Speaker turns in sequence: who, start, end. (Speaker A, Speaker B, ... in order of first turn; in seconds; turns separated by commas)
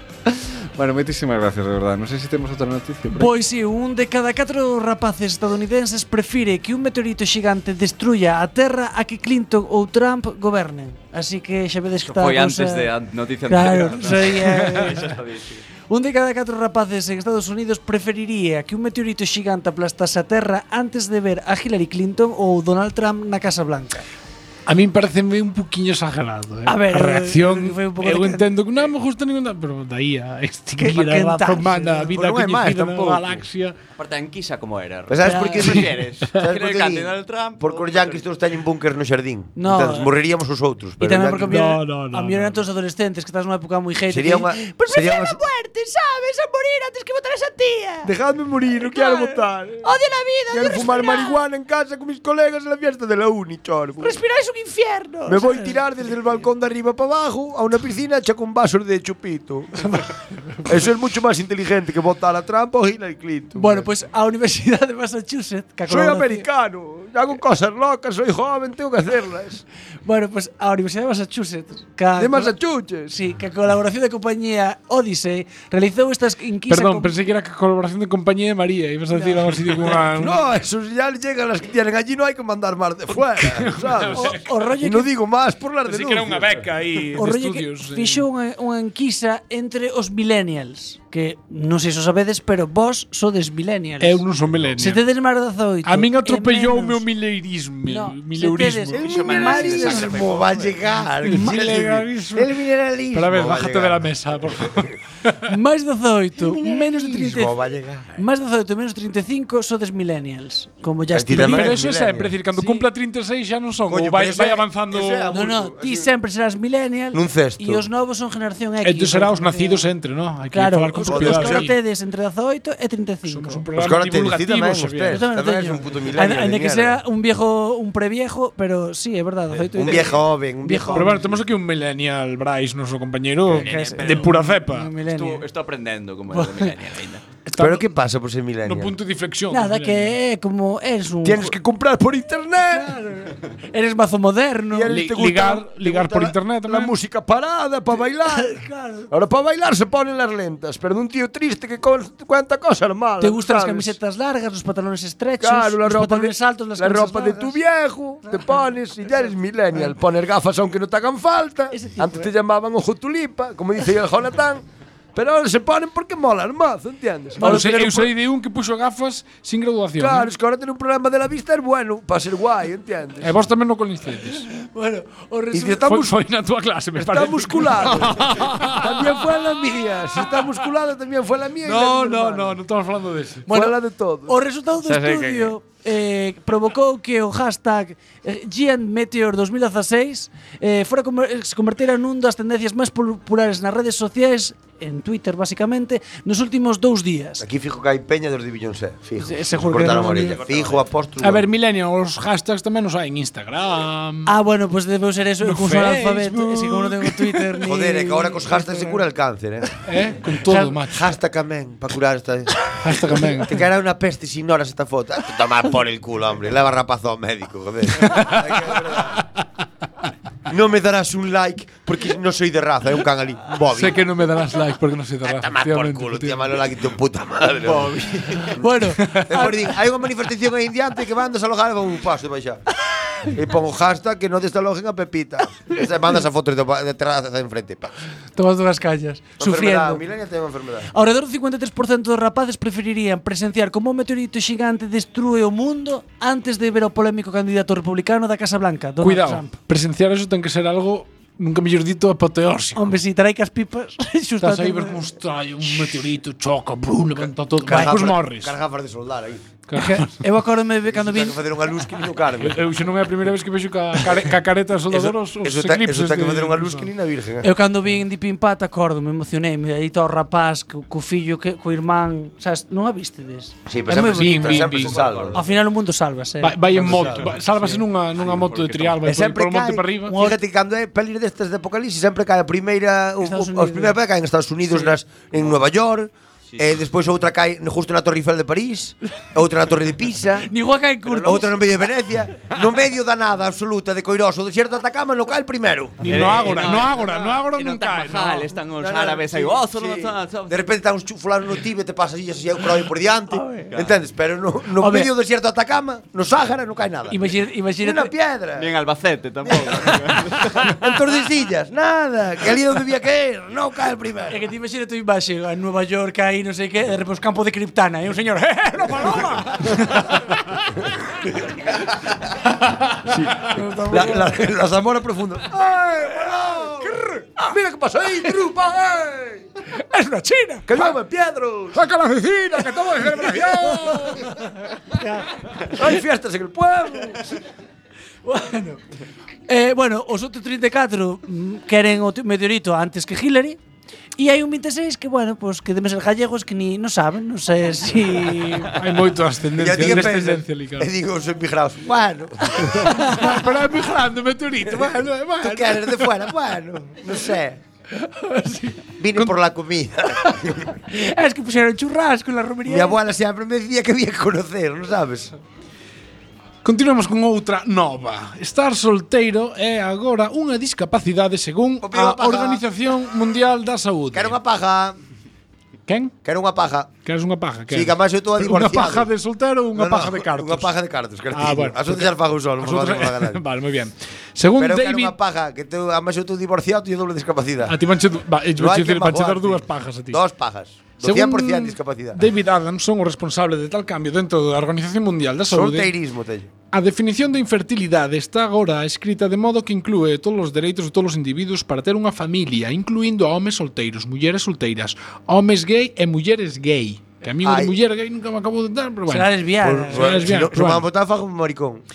Speaker A: 0.3-3.3, Speaker B: 3.1-12.9, Speaker C: 12.0-15.6, Speaker B: 13.5-15.0, Speaker B: 15.9-24.0, Speaker D: 24.7-33.8, Speaker B: 26.7-28.5, Speaker B: 30.8-32.1, Speaker E: 32.1-33.5, Speaker C: 34.0-38.2, Speaker E: 35.1-41.7, Speaker B: 35.2-35.9, Speaker B: 39.6-40.1, Speaker B: 41.0-48.1, Speaker D: 41.4-42.6, Speaker E: 44.1-45.4, Speaker E: 48.0-49.9, Speaker B: 48.8-51.4, Speaker E: 50.5-54.1, Speaker B: 54.0-55.8, Speaker E: 55.3-59.8, Speaker B: 59.8-60.6, Speaker E: 60.7-63.9, Speaker B: 63.5-66.5, Speaker E: 65.9-69.6, Speaker B: 70.0-72.5, Speaker E: 72.2-73.1, Speaker B: 73.1-77.2, Speaker D: 76.7-80.5, Speaker B: 79.1-79.8, Speaker E: 80.1-86.7, Speaker D: 83.4-84.7, Speaker B: 84.1-85.1, Speaker D: 85.8-88.2, Speaker B: 87.2-94.2, Speaker D: 94.0-95.0, Speaker B: 94.8-97.0, Speaker D: 95.8-99.1, Speaker B: 97.9-100.3, Speaker C: 98.9-100.8, Speaker E: 99.0-104.9, Speaker D: 101.2-102.6, Speaker B: 101.3-101.6, Speaker D: 103.1-104.9, Speaker B: 105.5-107.5, Speaker E: 106.4-108.2, Speaker B: 108.2-111.8, Speaker E: 111.1-112.3, Speaker D: 111.3-115.5, Speaker B: 112.5-112.9, Speaker E: 113.9-116.1, Speaker B: 115.3-119.9, Speaker E: 117.1-117.8, Speaker D: 118.8-121.7, Speaker B: 120.5-123.6, Speaker E: 121.1-121.7, Speaker D: 123.3-125.3, Speaker E: 123.8-127.0, Speaker B: 125.1-131.2, Speaker E: 129.7-131.4, Speaker D: 130.9-134.9, Speaker C: 133.4-137.4, Speaker B: 133.5-135.5, Speaker B: 136.3-136.7, Speaker D: 137.5-137.9, Speaker E: 137.5-138.9, Speaker D: 138.6-140.2, Speaker B: 139.5-141.6, Speaker E: 141.2-143.0, Speaker B: 142.7-145.0, Speaker E: 144.7-153.9, Speaker D: 144.9-146.9, Speaker B: 148.3-149.1, Speaker B: 153.2-157.6, Speaker E: 155.4-164.6, Speaker B: 158.2-158.6, Speaker B: 161.7-162.3, Speaker E: 165.2-168.1, Speaker B: 167.4-167.8, Speaker D: 167.4-170.3, Speaker E: 170.0-173.4, Speaker D: 173.2-174.5, Speaker B: 174.5-175.9, Speaker E: 175.5-176.1, Speaker D: 175.8-179.1, Speaker E: 176.9-182.6, Speaker D: 181.6-183.5, Speaker B: 183.5-197.4, Speaker E: 183.5-184.4, Speaker A: 184.8-185.6, Speaker E: 197.4-201.5, Speaker B: 199.2-200.4, Speaker C: 200.4-200.8, Speaker D: 201.2-204.3, Speaker B: 204.2-209.0, Speaker D: 205.4-207.6, Speaker E: 207.7-209.8, Speaker D: 209.9-211.1, Speaker B: 210.3-210.7, Speaker E: 210.5-219.2, Speaker D: 212.8-213.6, Speaker D: 218.0-219.2, Speaker E: 220.5-224.0, Speaker D: 223.7-226.4, Speaker E: 225.2-228.5, Speaker C: 228.1-228.4, Speaker B: 228.5-229.5, Speaker D: 229.0-229.3, Speaker E: 229.3-232.6, Speaker E: 233.2-237.9, Speaker B: 238.4-240.0, Speaker E: 239.4-240.9, Speaker B: 240.9-249.6, Speaker D: 249.0-252.9, Speaker B: 252.8-255.0, Speaker D: 254.4-258.6, Speaker E: 257.6-259.5, Speaker B: 257.6-258.0, Speaker D: 259.7-260.2, Speaker B: 259.8-261.4, Speaker E: 260.9-262.7, Speaker D: 262.4-266.9, Speaker E: 264.9-267.5, Speaker B: 267.4-274.7, Speaker E: 273.7-275.4, Speaker D: 273.9-275.0, Speaker C: 274.9-275.4, Speaker B: 275.3-276.6, Speaker D: 276.4-280.1, Speaker E: 276.7-277.4, Speaker C: 277.5-279.0, Speaker E: 279.0-290.5, Speaker B: 280.1-280.4, Speaker B: 283.2-284.0, Speaker B: 290.5-291.6, Speaker E: 291.1-296.7, Speaker D: 296.0-298.6, Speaker C: 296.1-300.6, Speaker E: 298.7-308.8, Speaker B: 303.3-303.7, Speaker B: 304.8-305.1, Speaker B: 307.1-308.1, Speaker C: 308.6-310.5, Speaker E: 309.4-314.4, Speaker B: 314.3-319.7, Speaker D: 318.8-320.6, Speaker D: 323.1-324.0, Speaker B: 323.3-324.3, Speaker E: 323.9-329.5, Speaker B: 329.9-330.9, Speaker E: 330.7-331.8, Speaker D: 331.8-334.3, Speaker E: 332.6-333.6, Speaker B: 334.9-335.7, Speaker E: 335.6-337.2, Speaker B: 338.2-338.8, Speaker B: 339.5-343.6, Speaker B: 344.2-348.8, Speaker D: 348.7-350.9, Speaker E: 349.6-353.0, Speaker B: 352.8-353.3, Speaker D: 353.0-356.1, Speaker E: 354.6-357.6, Speaker B: 358.0-358.8, Speaker E: 359.0-360.8, Speaker B: 360.9-363.0, Speaker E: 362.7-365.3, Speaker D: 366.6-374.4, Speaker E: 371.8-372.6, Speaker E: 374.1-375.0, Speaker D: 375.9-376.1, Speaker E: 376.2-376.9, Speaker D: 377.0-380.7, Speaker E: 377.7-379.1, Speaker E: 379.7-383.4, Speaker D: 381.3-385.1, Speaker E: 384.6-387.8, Speaker D: 387.7-390.2, Speaker E: 388.6-392.2, Speaker D: 391.0-395.9, Speaker E: 395.5-396.5, Speaker D: 396.7-409.3, Speaker E: 407.4-407.8, Speaker B: 409.1-410.2, Speaker E: 409.6-411.8, Speaker D: 409.9-410.9